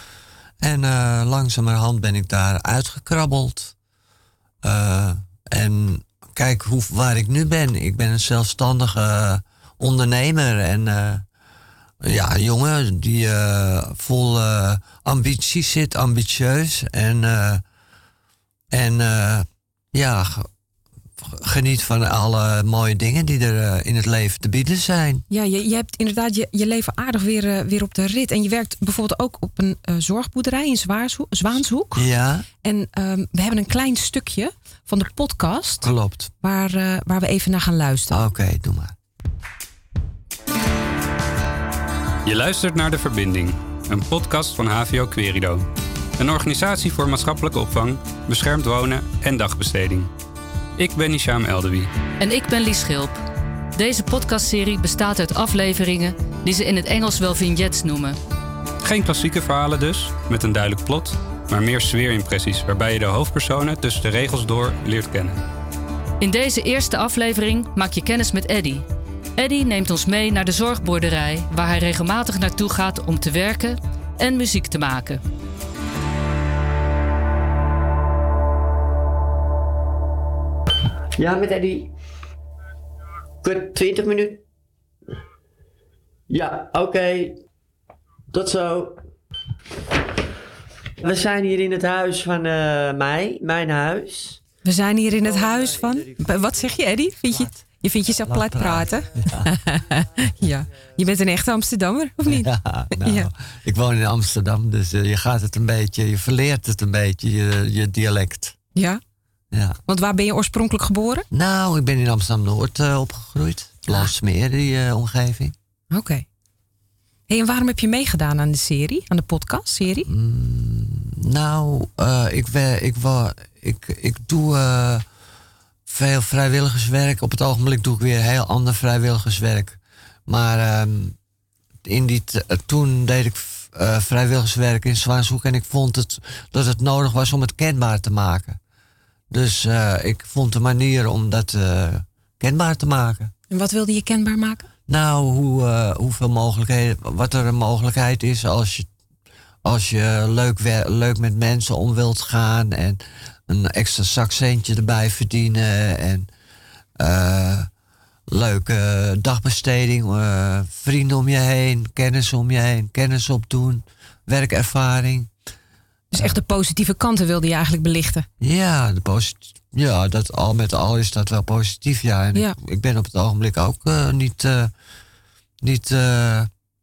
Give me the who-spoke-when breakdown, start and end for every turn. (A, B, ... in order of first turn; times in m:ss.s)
0:00.6-0:03.8 A
0:04.6-0:11.3 A
0:12.0-0:17.6 A
0:18.7-0:20.5 A
0:21.2-0:25.2 A
0:25.3-0:32.1 B
0:32.0-0:32.5 A
0:32.6-0:38.2 B
0:35.8-0:36.3 A
0:38.1-0:39.0 A
0:42.2-0:50.1 C
0:50.8-0:51.9 C
0:52.2-0:53.2 D
0:53.8-0:58.2 D
0:58.8-1:05.4 C
1:06.2-1:08.8 D
1:09.4-1:15.2 D
1:21.2-1:22.0 E
1:23.4-1:24.4 E
1:26.3-1:27.4 E
1:28.3-1:29.0 E
1:31.0-1:34.4 E
1:34.6-1:43.3 B
1:38.2-1:39.5 A
1:42.3-1:48.6 A
1:48.8-1:49.0 B
1:49.5-1:49.8 A
1:49.9-1:51.3 B
1:51.3-1:55.6 A
1:55.9-1:56.2 B
1:57.3-2:00.1 B
2:00.1-2:05.0 A
2:05.9-2:11.2 A
2:11.8-2:18.6 A
2:19.3-2:23.3 A
2:23.5-2:24.7 B
2:24.9-2:28.9 A
2:29.6-2:36.3 A
2:37.0-2:37.7 A
2:38.3-2:45.3 A
2:46.1-2:48.3 B
2:48.4-2:54.7 A
2:55.6-2:56.5 A